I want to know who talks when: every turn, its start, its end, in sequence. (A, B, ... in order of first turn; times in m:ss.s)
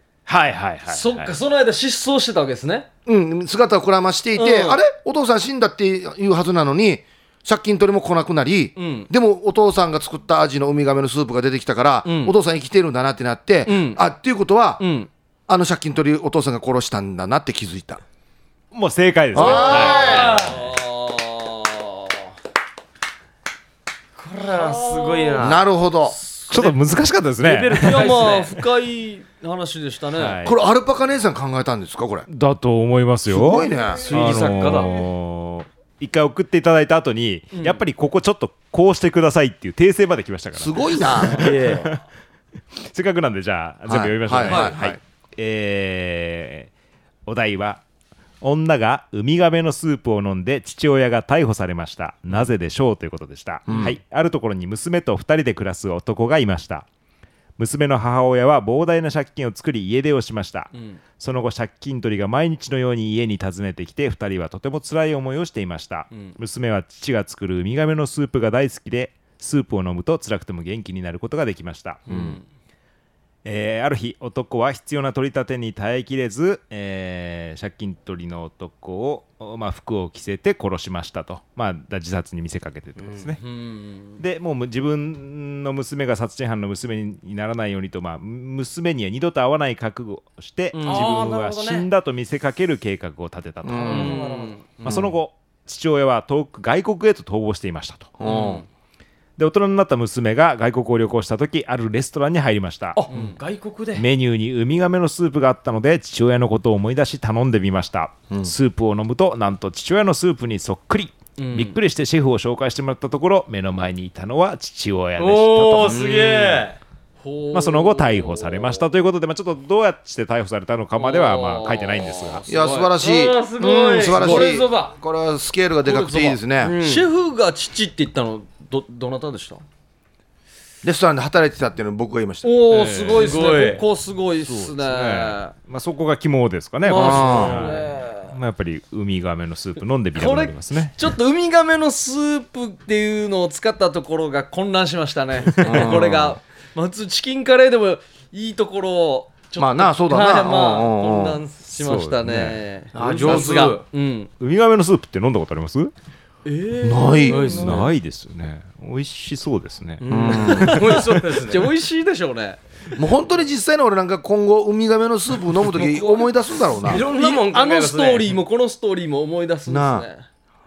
0:00.3-0:01.4 A
0:00.9-0:02.9 B
0:03.1-0:14.8 C
0:04.4-0:04.8 B
0:08.8-0:09.1 B
0:12.0-0:12.4 B
0:13.7-0:14.0 B
0:14.8-0:15.1 B
0:15.5-0:18.0 C
0:18.7-0:20.6 A
0:19.3-0:20.4 C
0:19.4-0:22.3 B
0:19.6-0:20.6 D
0:24.2-0:26.8 B
0:24.3-0:25.6 D
0:25.4-0:26.2 C
0:26.5-0:28.3 A
0:27.4-0:28.6 D
0:27.8-0:30.4 B
0:30.2-0:30.6 A
0:30.4-0:32.3 C
0:32.3-0:42.0 A
0:33.3-0:34.1 C
0:33.7-0:34.6 B
0:34.0-0:34.9 D
0:37.5-0:37.8 B
0:40.6-0:41.5 C
0:41.3-0:41.9 D
0:42.8-0:46.7 A
0:43.9-0:45.0 C
0:44.4-0:44.8 B
0:47.3-0:47.8 A
0:48.4-0:56.9 A
0:53.7-0:54.0 C
0:57.6-1:12.0 A
1:00.7-1:01.0 B
1:06.1-1:06.4 B
1:12.1-1:12.4 B
1:12.1-1:12.4 C
1:13.4-1:23.4 A
1:23.4-1:24.2 B
1:24.2-1:34.2 A
1:30.7-1:31.3 B
1:30.8-1:31.9 D
1:33.6-1:34.2 C
1:33.8-1:34.6 D
1:33.9-1:34.8 B
1:34.8-1:38.1 A
1:34.8-1:35.2 C
1:38.2-1:38.6 C
1:38.3-1:38.6 D
1:38.3-1:38.6 B
1:39.4-1:43.0 A
1:43.0-1:44.1 D
1:43.1-1:43.4 B
1:44.0-1:56.1 A
1:51.4-1:51.8 B
1:55.2-1:56.8 D
1:55.8-1:56.6 C
1:57.2-1:58.8 B
1:57.5-2:02.4 A
2:01.0-2:03.0 B
2:02.5-2:06.8 C
2:02.9-2:05.0 D
2:03.7-2:04.6 B
2:05.8-2:09.6 B
2:06.6-2:07.1 D
2:10.8-2:12.5 C
2:12.4-2:15.5 B
2:12.7-2:13.3 A
2:13.2-2:13.8 D
2:14.4-2:21.0 A
2:16.8-2:18.4 B
2:16.9-2:17.8 C
2:17.1-2:17.8 D
2:20.2-2:34.3 B
2:25.6-2:26.4 C
2:25.6-2:25.9 A
2:29.6-2:31.4 C
2:31.7-2:32.6 A
2:33.0-2:33.8 D
2:34.4-2:35.9 A
2:36.4-2:37.8 B
2:36.8-2:37.6 C
2:37.2-2:37.9 D
2:37.6-2:40.0 A
2:40.0-2:41.7 D
2:40.1-2:40.8 C
2:40.3-2:42.6 B
2:43.0-2:47.0 C
2:45.8-2:46.3 B
2:46.8-2:48.4 D
2:46.8-2:50.3 B
2:49.7-2:50.1 C